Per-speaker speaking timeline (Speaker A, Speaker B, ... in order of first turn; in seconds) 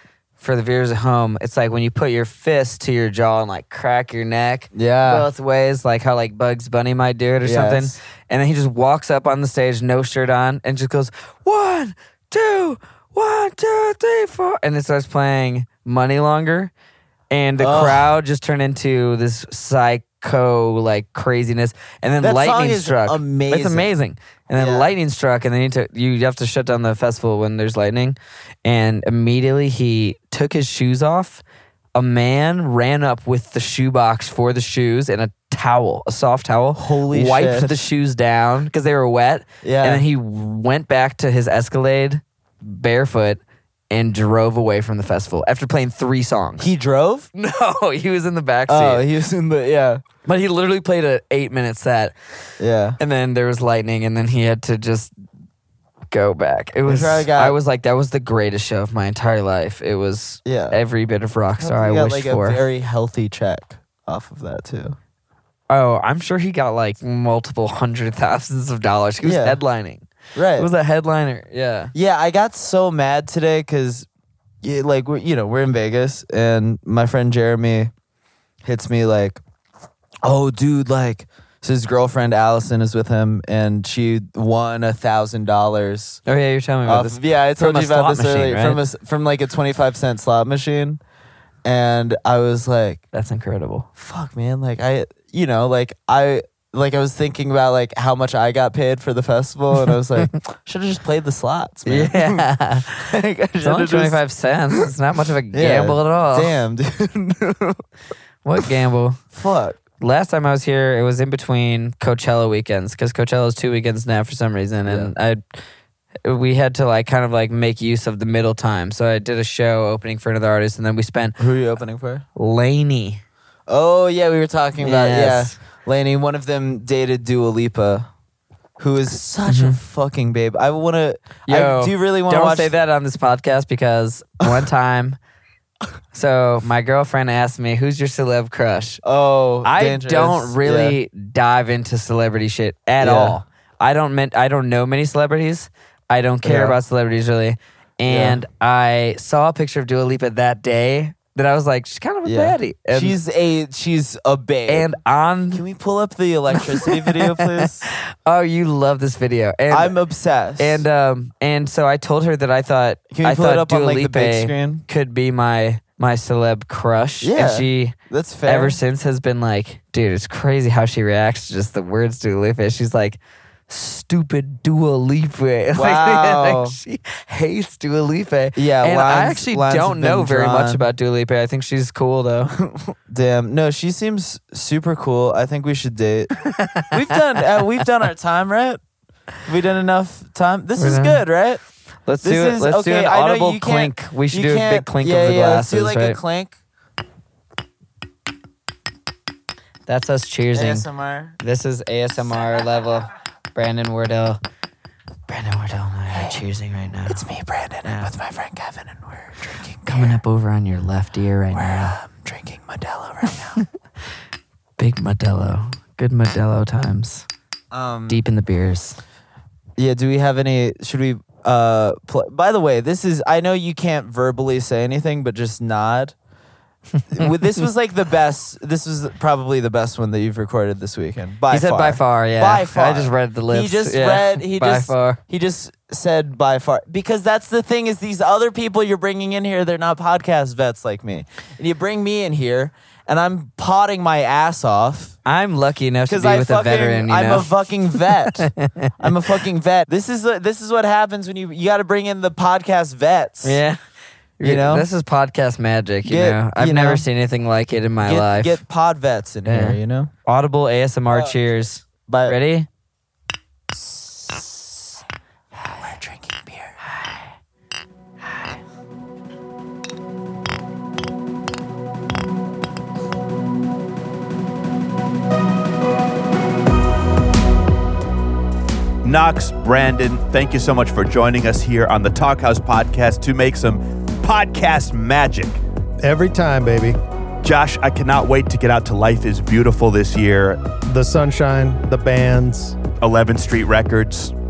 Speaker A: 0.4-16.7, 17.3-31.4, 31.9-43.4, 43.9-46.7, 47.3-49.0, 50.2-52.1, 53.0-55.1, 56.1-62.6, 65.7-71.9, 86.3-88.8, 93.1-93.9, 101.8-103.1, 103.6-106.6, 108.4-109.2, 110.0-115.4, 116.2-121.3, 122.3-123.2, 124.8-125.5, 129.4-129.8, 131.5-135.2, 136.1-139.0, 139.6-153.2, 154.7-155.6, 156.5-159.9, 160.6-167.9, 168.4-182.5, 186.4-186.9, 190.8-191.2, 192.1-196.2, 199.8-200.8, 201.4-204.4, 205.3-207.2, 207.8-208.1, 209.9-212.0, 214.8-217.3, 218.1-219.0, 231.5-235.2, 245.2-249.2, 253.4-253.8, 254.4-258.6, 259.4-262.7
Speaker B: 4.7-5.3, 7.4-7.9, 17.6-18.1, 22.2-23.9, 24.5-24.9, 36.8-37.8, 39.6-40.0, 46.6-47.3, 48.7-50.0, 52.6-53.0, 56.9-57.6, 60.4-60.8, 61.6-65.0, 69.2-69.6, 70.3-70.7, 71.9-74.1, 74.6-77.9, 78.6-79.4, 80.2-86.2, 86.8-91.0, 91.6-93.0, 94.0-102.4, 103.0-104.2, 105.5-107.8, 109.3-109.8, 114.8-115.1, 121.4-122.2, 123.7-128.1, 128.8-132.7, 139.0-140.9, 143.0-143.4, 146.4-146.8, 148.1-148.4, 152.2-155.0, 155.5-157.9, 159.7-160.8, 163.1-164.8, 167.2-168.8, 175.7-176.8, 178.6-180.8, 182.5-188.8, 189.4-191.6, 192.2-196.6, 200.5-201.4, 206.1-206.4, 207.1-210.2, 211.5-213.6, 217.7-218.2, 219.8-226.1, 227.1-245.2, 246.1-253.6, 254.4-254.9, 256.0-257.0, 258.0-260.1, 261.1-262.4, 265.6-266.8
Speaker C: 279.0-285.6, 287.4-290.6, 293.0-294.3
Speaker D: 286.0-287.0, 290.9-292.8